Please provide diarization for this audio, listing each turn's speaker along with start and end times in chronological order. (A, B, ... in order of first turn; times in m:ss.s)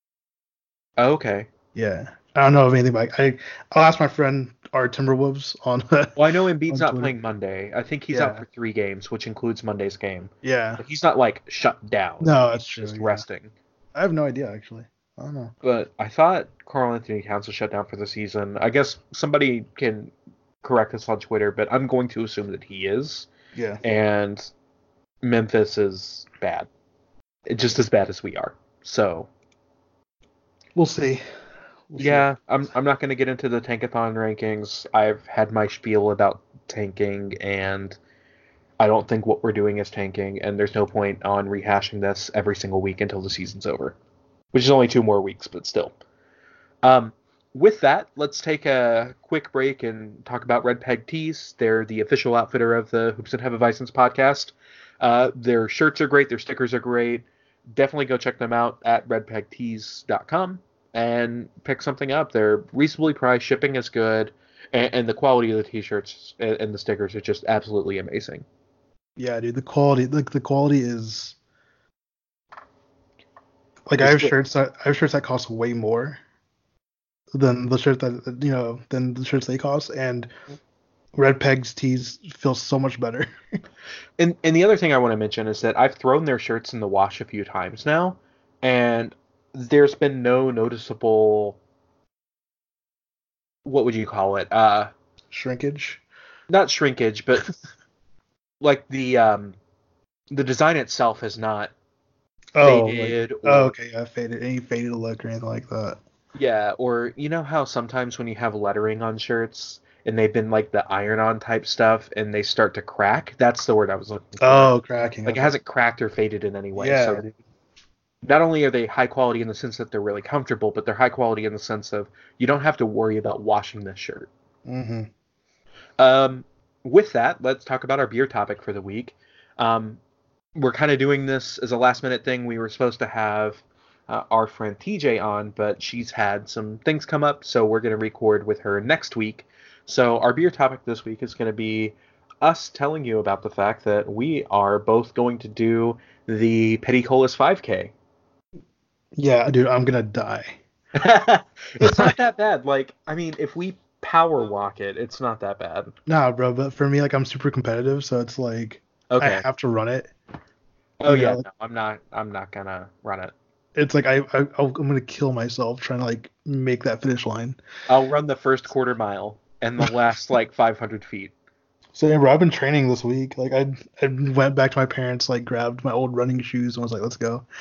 0:01.0-0:01.5 A
0:01.8-0:06.2 B
0:06.2-0:13.5 A
0:06.7-0:07.1 B
0:08.1-0:08.4 B
0:10.4-0:10.8 B
0:12.2-0:13.2 B
0:14.0-0:15.5 B
0:15.6-0:23.3 A
0:23.6-0:23.8 B
0:23.8-0:24.5 A
0:25.2-0:26.7 A
0:27.5-0:29.3 A
0:30.8-0:31.2 B
0:31.9-0:32.3 B
0:32.0-0:38.0 A
0:38.8-0:44.0 A
0:44.5-0:46.0 A
0:46.8-1:08.5 A
1:09.2-1:11.4 B
1:13.9-1:16.2 B
1:14.0-1:14.4 A
1:17.3-1:20.3 B
1:21.1-1:23.3 B
1:24.2-1:31.6 A
1:33.6-1:34.9 A
1:35.3-1:36.0 B
1:36.5-1:37.5 A
1:38.6-1:39.6 A
1:40.3-1:41.7 A
1:42.6-1:46.0 B
1:42.6-1:43.8 A
1:46.4-1:57.3 A
1:54.4-1:55.6 B
1:56.8-1:57.3 B
1:58.2-2:04.3 A
2:04.6-2:05.1 B
2:06.0-2:10.0 A
2:10.6-2:27.9 A
2:29.2-2:30.6 B
2:31.0-2:35.9 A
2:31.8-2:32.1 B
2:36.1-2:40.1 B
2:39.1-2:39.5 A
2:41.0-2:43.3 A
2:41.0-2:41.5 B
2:43.8-2:47.6 B
2:47.9-2:51.3 A
2:51.9-2:57.5 B